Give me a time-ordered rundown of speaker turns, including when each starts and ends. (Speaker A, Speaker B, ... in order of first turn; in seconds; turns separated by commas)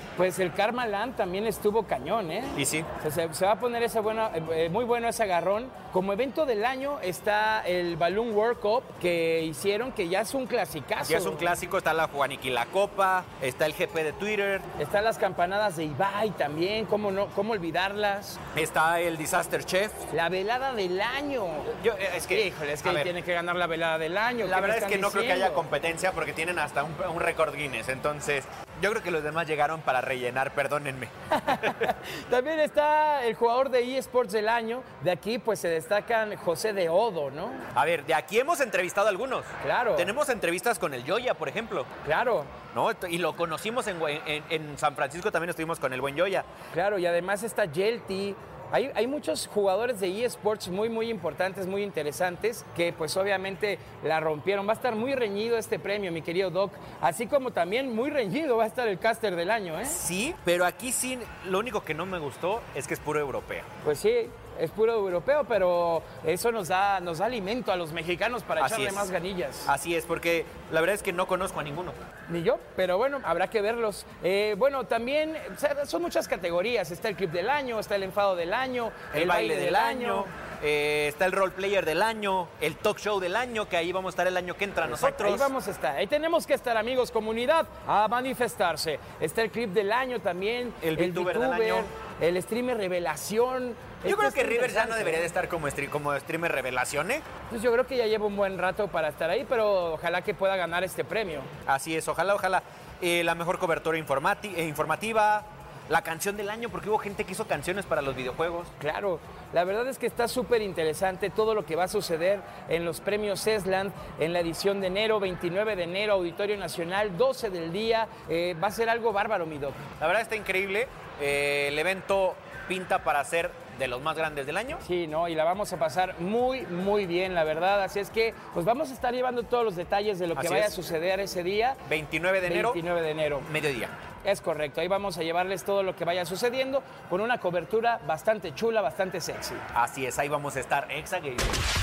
Speaker A: 0.2-11.5, Speaker B: 2.5-2.9, Speaker B: 11.0-14.7, Speaker A: 14.8-18.4, Speaker B: 18.5-20.0, Speaker A: 20.1-21.7, Speaker B: 21.7-23.1, Speaker A: 22.3-25.6, Speaker B: 24.4-31.9, Speaker A: 31.3-37.7, Speaker B: 37.7-41.9, Speaker A: 39.6-40.1, Speaker A: 42.0-42.5, Speaker B: 42.7-46.5, Speaker A: 46.7-60.0, Speaker B: 59.9-63.7, Speaker A: 63.8-69.7, Speaker B: 68.6-69.1, Speaker B: 69.6-72.0, Speaker A: 72.3-80.3, Speaker B: 79.1-85.5, Speaker A: 84.8-95.3, Speaker B: 90.8-91.9, Speaker B: 94.0-97.2, Speaker A: 97.5-101.5, Speaker B: 101.7-108.7, Speaker A: 108.8-119.8, Speaker B: 120.0-124.8, Speaker A: 124.8-131.8, Speaker B: 130.3-130.7, Speaker B: 131.8-132.8, Speaker A: 132.4-133.5, Speaker B: 133.4-133.9, Speaker A: 134.2-139.6, Speaker B: 139.7-141.6